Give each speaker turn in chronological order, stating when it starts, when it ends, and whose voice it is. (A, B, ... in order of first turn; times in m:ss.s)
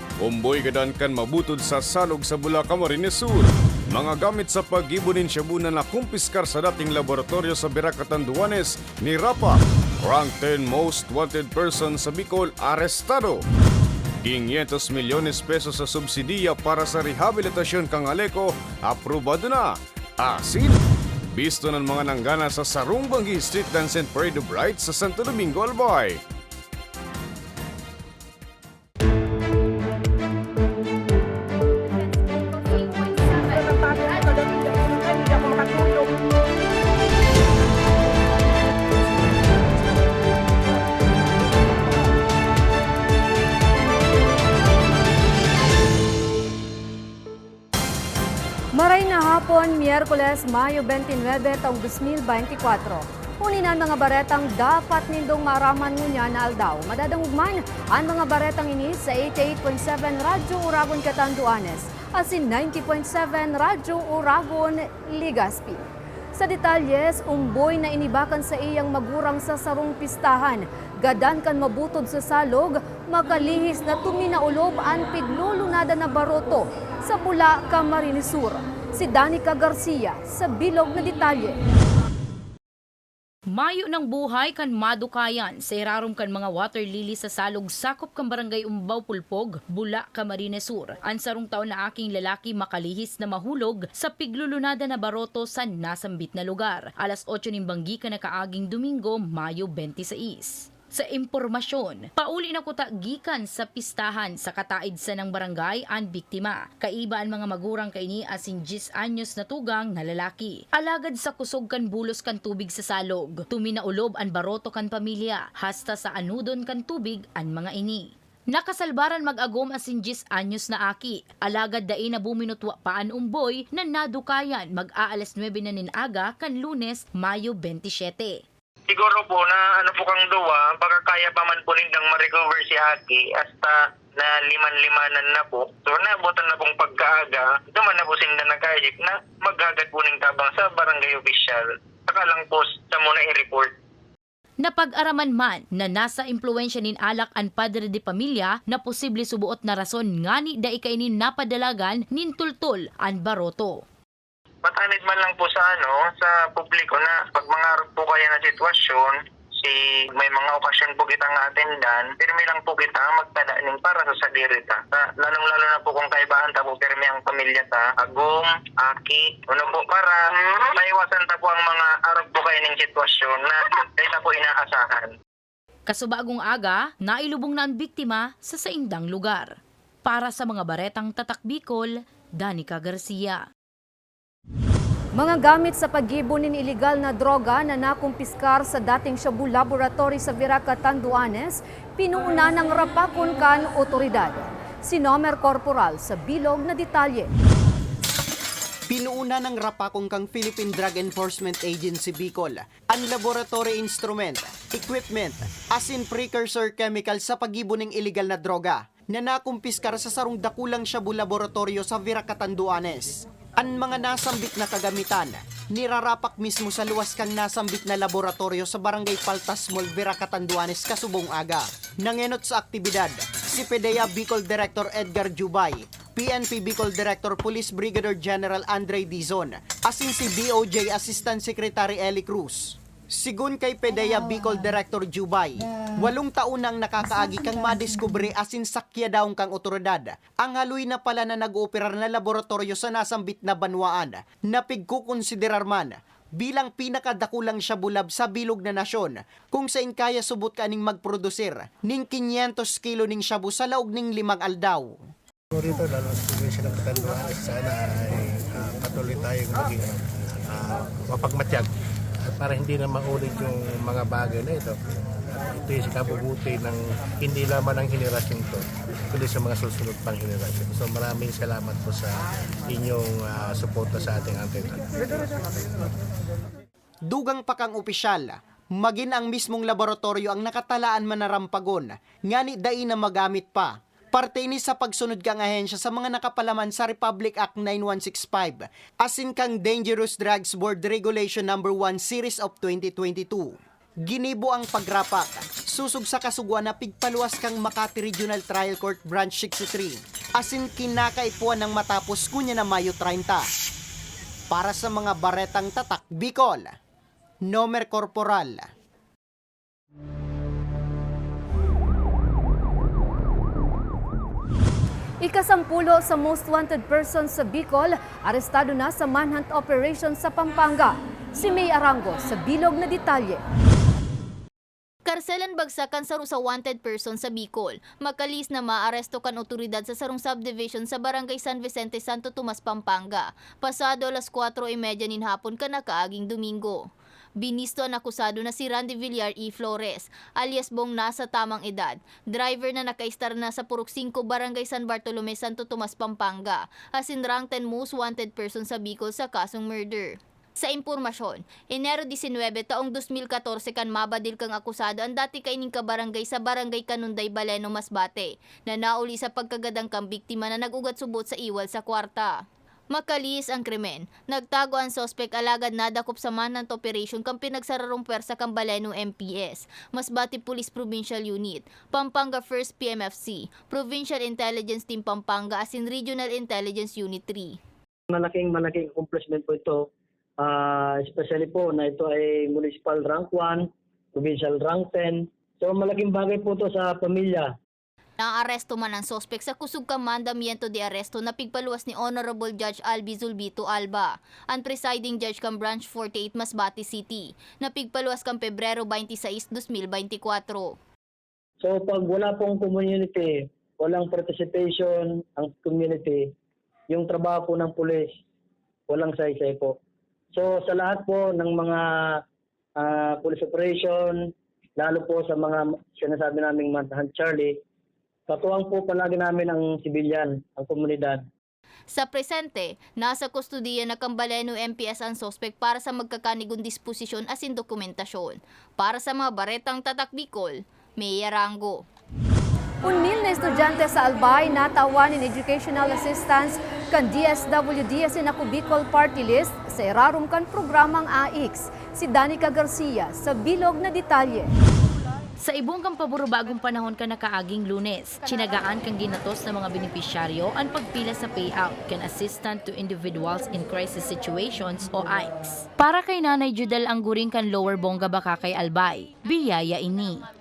0:00.3-0:09.6 A
0:10.1-0:13.4 A
0:14.3-0:19.6 A
0:20.3-0:20.8 A
0:21.4-0:26.2 A
0:48.8-1:05.8 B
1:06.4-1:21.6 B
1:23.5-2:08.4 C
2:08.9-2:23.7 D
2:24.6-2:33.8 C
2:34.6-2:55.1 D
2:55.9-3:03.4 C
3:05.2-3:17.3 B
3:18.9-4:15.0 E
4:15.5-4:21.7 F
4:22.3-4:24.7 F
4:25.6-4:32.1 F
4:32.7-4:35.1 F
4:37.1-4:53.5 E
4:54.0-5:03.5 E
5:04.5-5:06.8 E
5:07.5-5:08.7 E
5:15.2-5:23.4 B
5:25.1-5:36.8 G
5:37.4-6:02.3 G
6:02.9-6:17.6 G
6:18.1-6:19.8 H
6:20.4-6:23.6 H
6:24.2-6:27.5 H
6:28.2-6:40.8 G
6:41.6-6:46.2 H
6:46.9-6:48.1 H
6:48.9-6:49.7 H
6:50.4-6:51.8 H
6:52.8-6:54.1 H
6:54.8-6:57.5 H
6:58.3-7:01.2 H
7:01.9-7:11.8 G
7:12.8-7:24.5 B
7:25.4-7:40.2 C